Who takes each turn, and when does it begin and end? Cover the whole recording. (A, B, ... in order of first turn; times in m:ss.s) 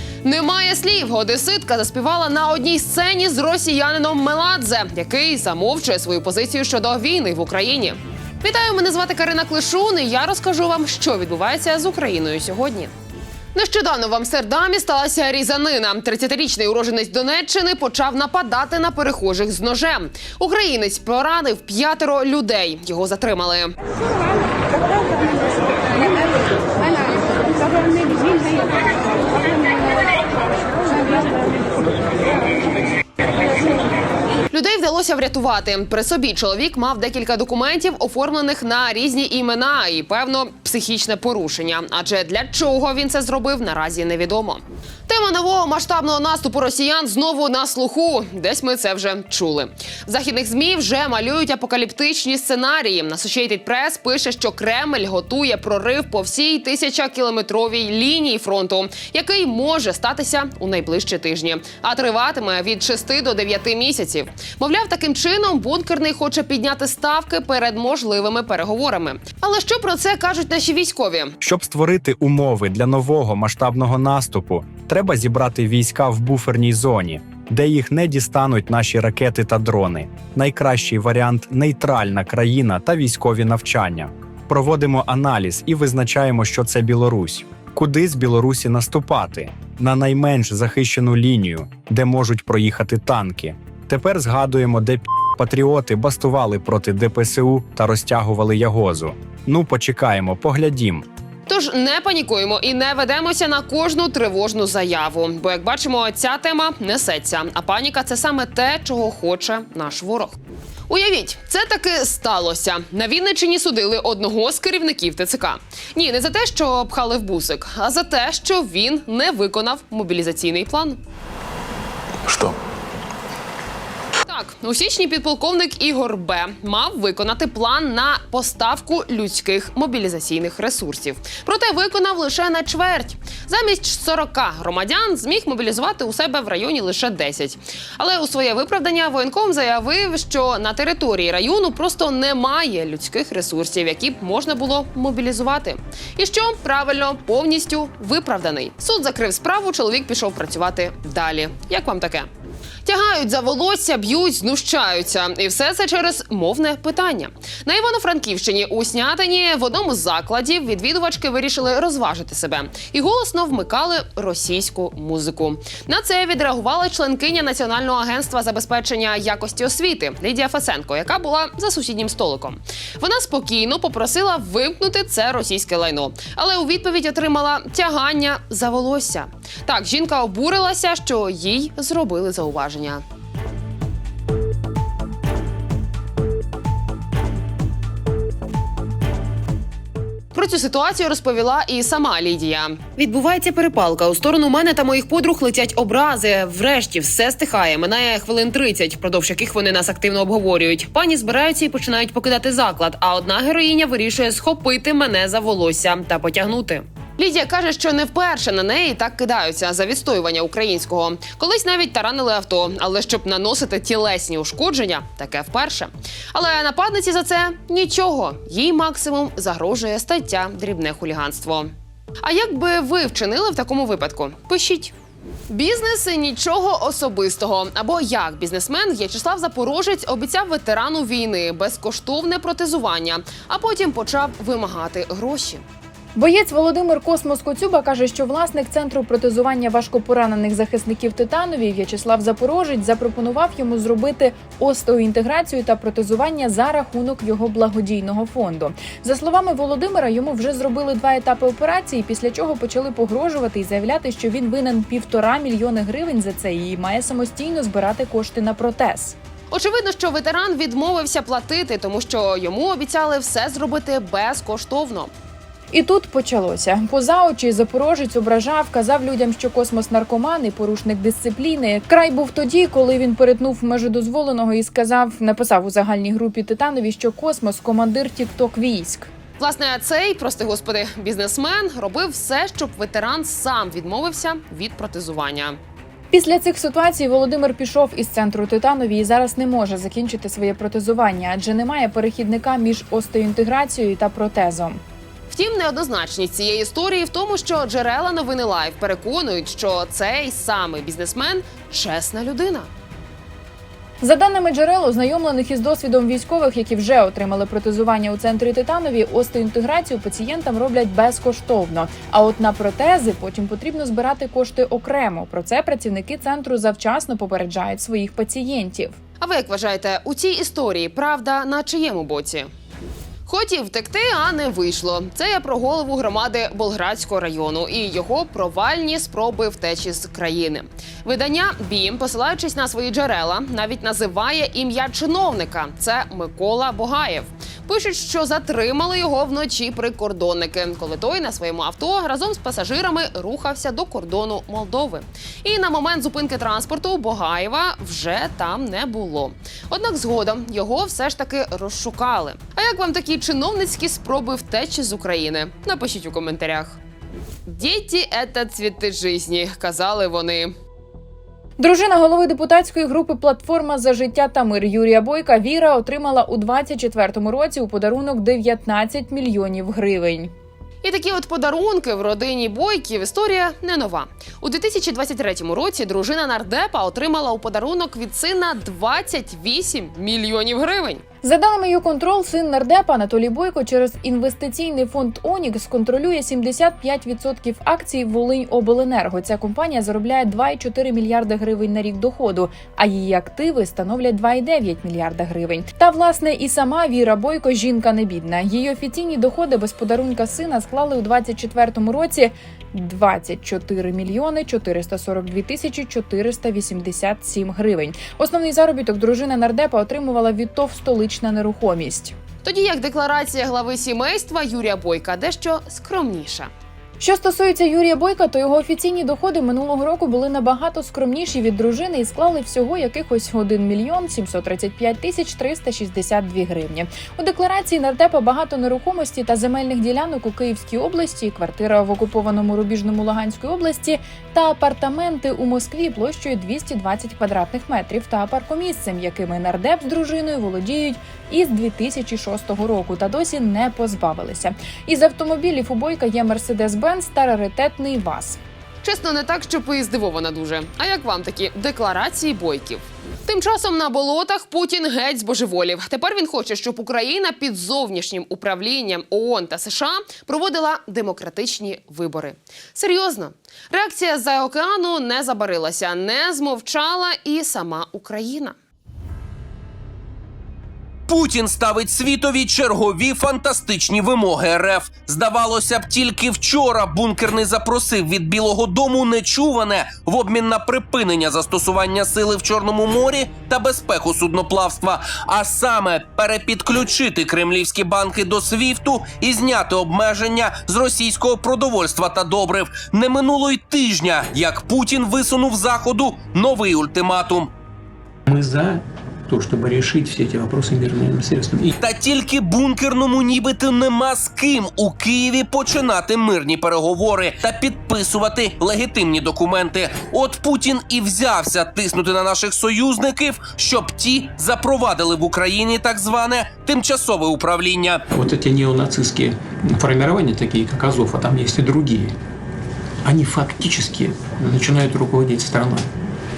0:00.2-0:12.9 A
0:13.5-0:23.8 A
0:34.5-1:11.4 A
1:11.4-1:41.1 B
1:41.5-2:01.0 A
2:04.3-2:32.3 A
2:32.8-3:03.0 A
3:10.3-3:44.9 A
3:45.5-3:55.6 A
3:56.2-4:19.2 C
4:19.5-4:25.1 A
4:25.7-4:39.1 C
4:39.4-4:45.6 A
4:46.1-4:54.8 C
4:55.3-5:02.7 A
5:04.0-5:19.0 C
5:19.2-5:22.5 A
5:23.3-5:56.8 A
5:57.5-6:00.5 A
6:01.6-6:10.3 C
6:10.8-6:21.0 A
6:21.2-6:52.2 C
6:52.4-6:56.5 A
6:57.0-7:28.4 C
7:28.8-7:48.6 A
7:51.1-8:17.5 D
8:18.3-8:21.7 E
8:21.8-8:38.0 D
8:38.1-8:42.2 E
8:43.0-8:45.9 E